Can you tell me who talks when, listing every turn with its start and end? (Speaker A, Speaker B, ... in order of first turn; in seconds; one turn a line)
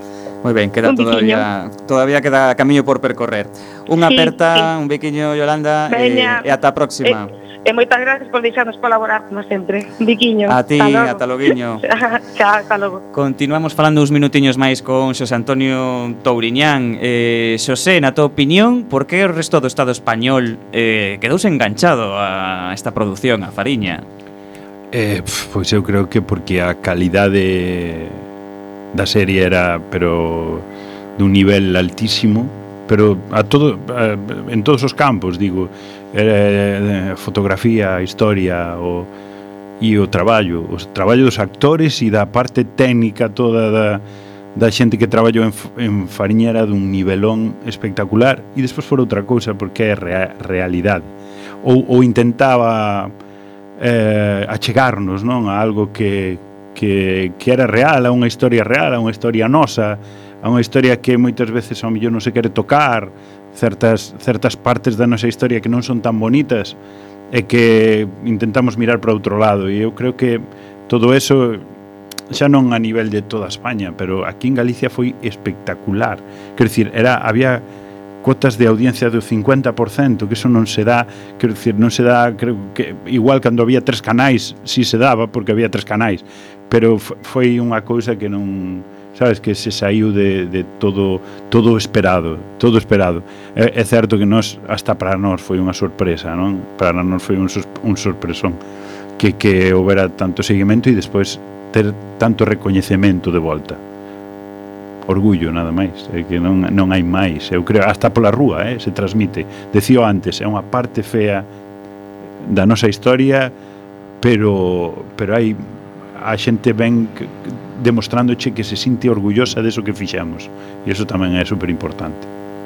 Speaker A: 0.4-7.3
Speaker B: 0.8-1.4
Speaker B: 4.1-4.7
Speaker B: 5.9-6.5
Speaker B: 7.0-11.3
Speaker A: 10.5-11.9
Speaker B: 11.8-13.0
Speaker A: 13.1-24.1
Speaker C: 24.9-28.2
Speaker C: 28.9-39.1
Speaker C: 39.8-44.0
Speaker C: 44.5-53.1
Speaker C: 53.8-66.8
Speaker C: 67.3-71.6
Speaker C: 72.3-77.6
Speaker C: 78.2-98.6
Speaker C: 99.2-103.8
Speaker C: 105.1-111.5
Speaker C: 112.4-113.5
Speaker C: 114.2-122.3